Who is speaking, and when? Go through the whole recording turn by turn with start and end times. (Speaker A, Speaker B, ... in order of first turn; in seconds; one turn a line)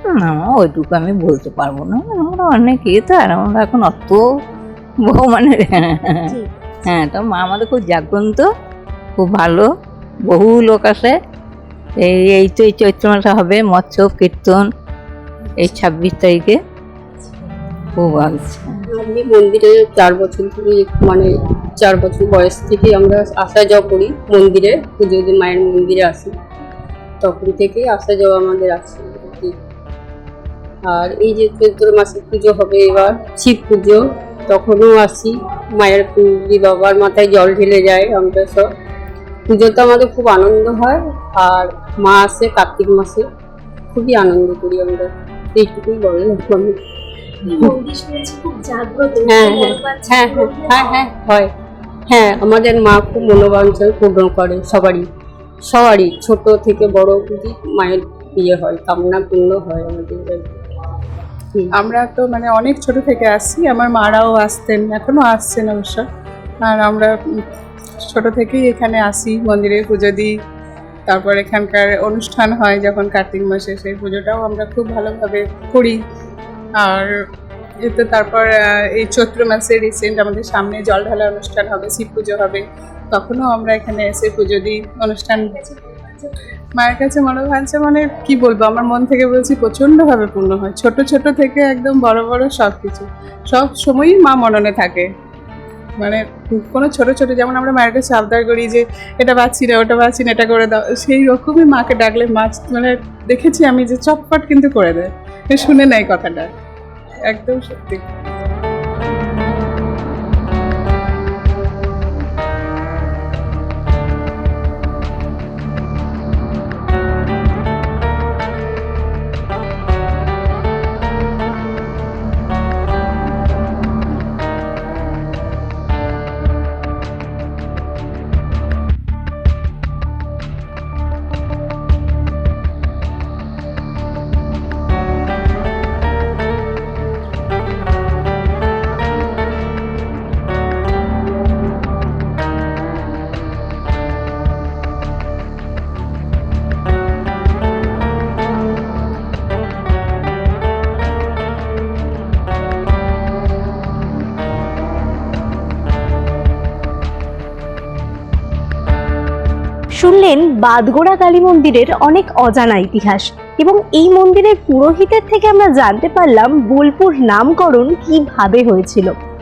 Speaker A: 0.1-4.2
Speaker A: 5.0-8.4
Speaker B: 6.3-6.8
Speaker A: 9.2-9.7
Speaker A: 10.3-11.1
Speaker A: 12.0-14.7
Speaker A: 15.6-16.6
Speaker A: 17.9-18.8
Speaker C: 18.9-26.3
Speaker C: 27.2-29.6
Speaker C: 30.8-38.7
Speaker C: 39.5-43.2
Speaker C: 43.9-46.8
Speaker C: 47.4-47.7
Speaker B: 47.4-50.8
Speaker C: 49.2-51.5
Speaker C: 52.1-55.1
Speaker C: 55.6-60.6
Speaker D: 61.7-66.0
Speaker D: 66.6-67.4
Speaker D: 68.0-70.3
Speaker D: 71.1-76.0
Speaker D: 76.8-77.2
Speaker D: 77.8-85.6
Speaker D: 86.8-95.1
Speaker D: 96.0-106.5
Speaker D: 107.3-108.0
Speaker B: 160.0-169.1